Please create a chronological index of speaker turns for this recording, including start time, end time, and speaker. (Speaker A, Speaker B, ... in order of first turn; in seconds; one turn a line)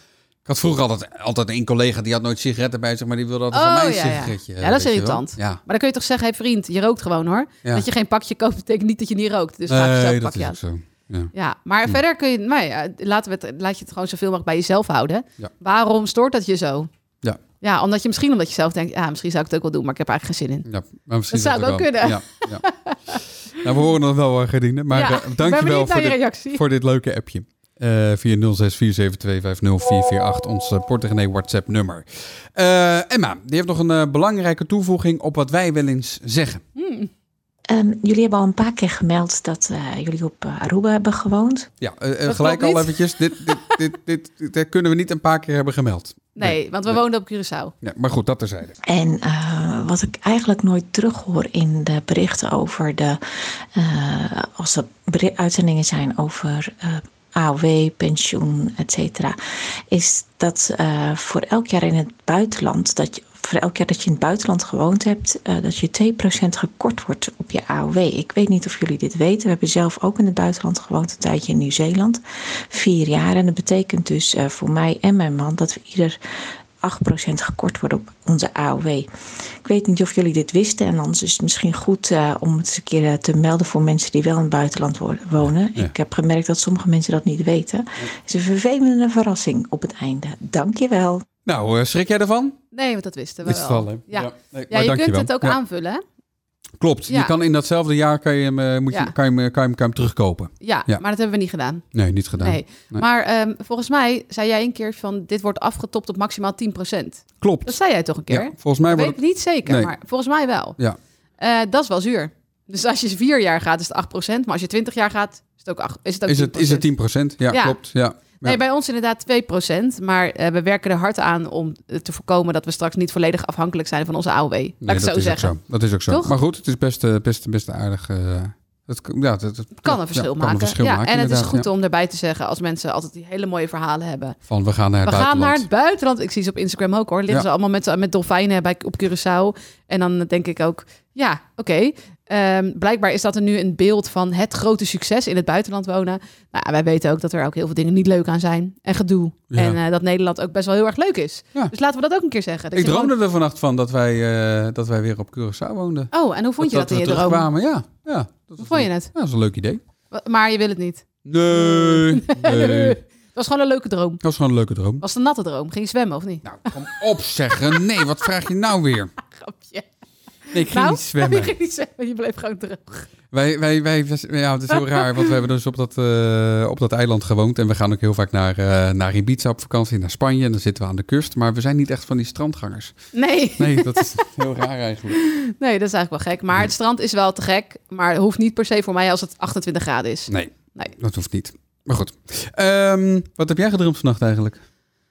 Speaker A: 0.4-5.6
Speaker B: 3.5-10.6
Speaker A: 9.7-11.3
Speaker B: 11.3-16.9
Speaker B: 17.6-20.6
Speaker A: 20.6-32.0
Speaker B: 21.3-23.2
Speaker B: 24.9-26.6
Speaker A: 32.5-36.6
Speaker B: 36.8-37.1
Speaker C: 37.7-41.7
Speaker A: 41.8-47.0
Speaker B: 42.3-43.8
Speaker B: 46.4-47.7
Speaker A: 47.8-48.8
Speaker C: 48.9-53.2
Speaker C: 53.7-59.4
Speaker C: 59.9-76.2
Speaker C: 76.8-79.1
Speaker C: 79.6-91.2
Speaker A: 91.5-92.6
Speaker B: 92.7-96.0
Speaker A: 93.4-95.6
Speaker A: 96.8-101.0
Speaker B: 100.6-101.8
Speaker A: 101.9-103.0
Speaker B: 102.4-110.8
Speaker A: 107.4-107.8
Speaker A: 108.3-109.9
Speaker B: 111.4-116.8
Speaker A: 116.3-118.6
Speaker B: 117.5-117.8
Speaker B: 118.3-125.5
Speaker A: 124.8-131.7
Speaker B: 129.8-134.4
Speaker A: 134.5-135.7
Speaker B: 135.0-153.1
Speaker A: 149.5-149.8
Speaker A: 152.7-159.8
Speaker B: 156.1-157.5
Speaker B: 158.6-159.1
Speaker B: 160.1-164.2
Speaker A: 161.2-163.0
Speaker A: 164.2-165.0
Speaker B: 165.0-166.7
Speaker A: 166.4-169.1
Speaker B: 169.3-169.8
Speaker A: 170.5-171.5
Speaker B: 170.6-173.1
Speaker A: 173.3-182.9
Speaker B: 174.8-175.2
Speaker B: 183.1-184.2
Speaker A: 183.6-185.2
Speaker B: 185.1-190.9
Speaker A: 190.3-194.6